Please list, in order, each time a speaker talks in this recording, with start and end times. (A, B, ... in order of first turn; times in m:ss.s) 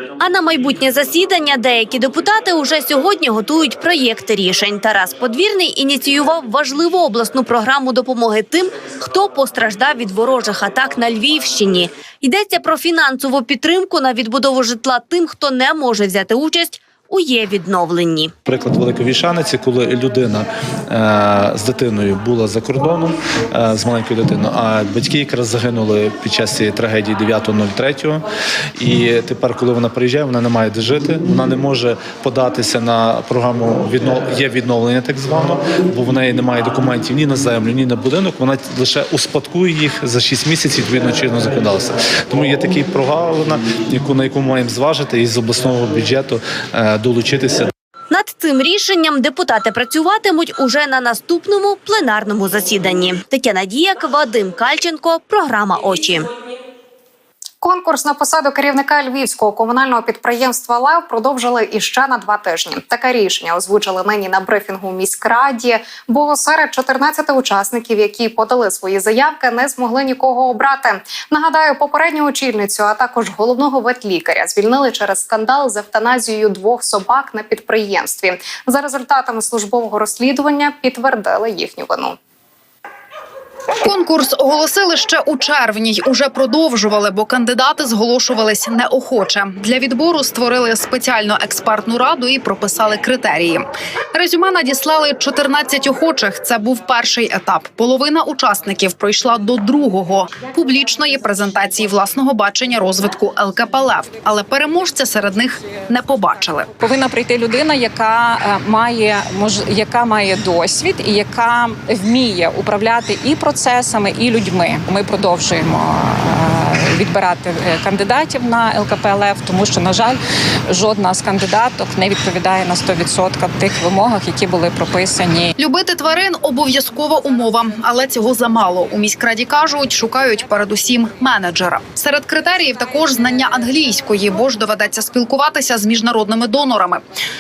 0:00.2-0:18.3 A
0:18.5-0:28.2 B
0:28.8-0:47.7 B
0:48.1-0:56.3 A
0:57.6-1:22.2 C
1:23.8-1:46.7 D
1:46.8-2:00.2 E
2:00.7-2:05.5 E
2:05.6-2:17.0 D